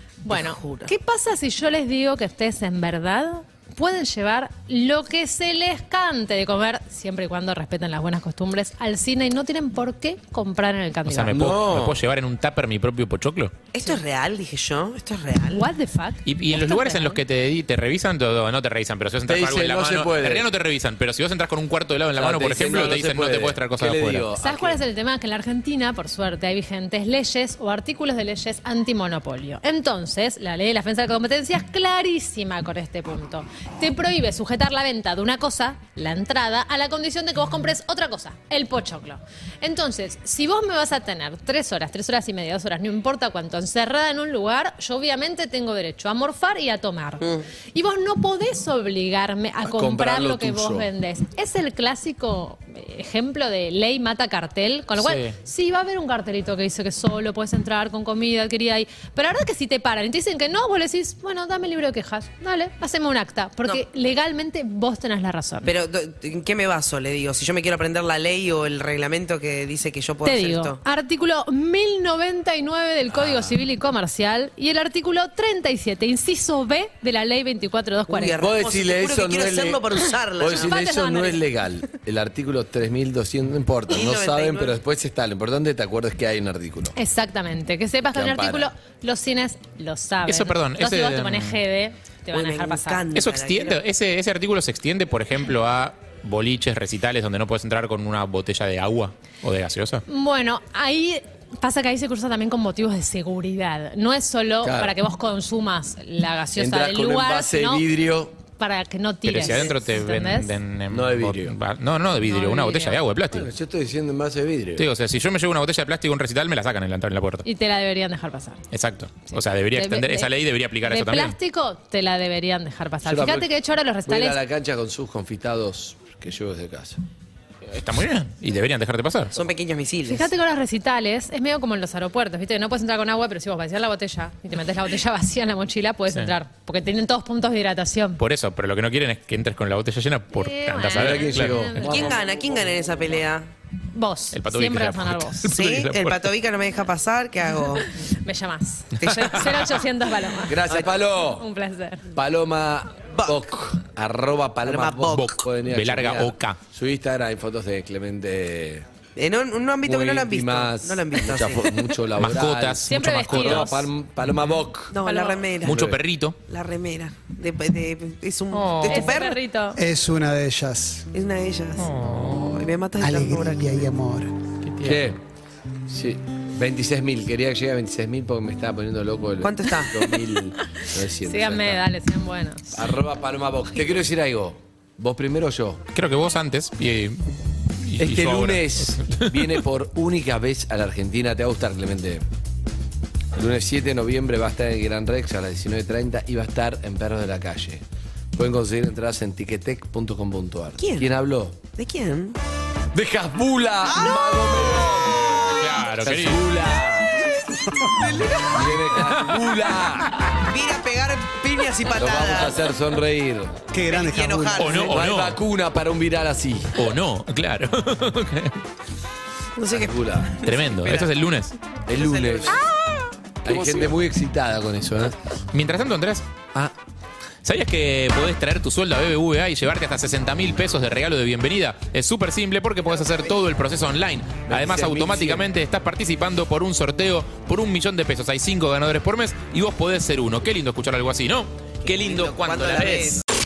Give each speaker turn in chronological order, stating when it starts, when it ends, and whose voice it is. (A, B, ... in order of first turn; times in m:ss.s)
0:00.2-0:11.4 A
0:00.3-0:00.9 B
0:11.0-0:13.5 C
0:11.3-0:12.0 D
0:13.7-0:15.7 B
0:15.5-0:17.2 A
0:16.2-0:24.3 C
0:19.2-0:20.5 D
0:22.1-0:24.8 D
0:24.3-1:05.7 A
0:49.6-0:50.9 D
0:55.0-0:55.3 C
1:05.6-1:10.8 B
1:10.2-1:18.4 A
1:13.1-1:13.5 C
1:18.1-1:20.8 B
1:18.4-1:26.9 D
1:20.4-1:21.4 A
1:23.9-1:24.8 B
1:26.9-1:33.0 A
1:28.1-1:28.7 D
1:30.3-1:31.6 C
1:32.3-1:33.8 B
1:33.1-1:40.0 C
1:40.1-1:47.8 A
1:44.6-1:45.0 D
1:46.6-1:48.4 D
1:48.6-1:50.6 A
1:49.2-1:53.5 C
1:50.9-1:51.6 D
1:52.2-1:53.0 A
1:53.3-1:54.9 D
1:54.8-1:57.4 C
1:57.4-1:58.6 A
1:58.7-2:01.4 C
1:59.7-2:04.4 A
2:03.0-2:03.5 D
2:04.0-2:07.0 D
2:07.7-2:09.3 C
2:09.3-2:10.3 B
2:10.0-2:18.2 A
2:18.2-2:21.7 C
2:20.3-2:22.2 A
2:20.9-2:23.0 D
2:21.8-2:23.5 B
2:23.9-2:25.5 A
2:24.3-2:26.3 C
2:25.4-2:27.8 B
2:27.8-2:30.7 A
2:29.0-2:29.7 C
2:30.4-2:31.5 D
2:30.7-2:30.9 B
2:31.3-2:32.0 A
2:32.1-2:38.8 D
2:33.1-2:33.4 B
2:34.6-2:35.5 B
2:35.1-2:36.6 C
2:39.2-2:41.8 B
2:39.8-2:45.0 D
2:42.2-2:43.7 C
2:42.9-2:43.9 A
2:44.3-2:44.7 C
2:44.9-2:45.9 B
2:45.0-2:45.6 A
2:45.6-2:46.4 C
2:45.7-2:46.0 D
2:46.5-2:49.4 B
2:48.5-2:49.1 C
2:48.8-2:49.8 A
2:49.8-2:51.0 E
2:51.1-2:53.9 B
2:51.8-2:52.6 C
2:53.0-2:54.4 E
2:54.6-2:55.1 C
2:54.8-2:55.2 D
2:55.9-3:01.8 D
2:59.4-3:00.0 B
3:01.2-3:02.9 A
3:02.7-3:05.8 D
3:05.9-3:07.2 C
3:07.8-3:09.6 C
3:08.0-3:12.2 D
3:13.3-3:17.8 D
3:18.3-3:21.6 D
3:20.8-3:21.0 B
3:21.7-3:22.4 B
3:22.9-3:27.2 D
3:23.8-3:25.9 B
3:25.4-3:26.4 C
3:27.8-3:28.9 B
3:28.5-3:30.3 D
3:29.0-3:29.7 C
3:30.4-3:32.6 B
3:31.9-3:33.7 D
3:33.7-3:34.9 E
3:33.8-3:35.0 B
3:34.6-3:35.4 C
3:34.8-3:36.9 D
3:36.7-3:38.6 C
3:39.6-3:42.7 B
3:39.7-3:40.4 D
3:40.4-3:41.5 C
3:41.9-3:42.6 D
3:43.4-3:45.2 D
3:45.5-3:46.2 C
3:47.4-4:03.2 C
3:54.4-3:55.5 D
4:01.8-4:03.2 B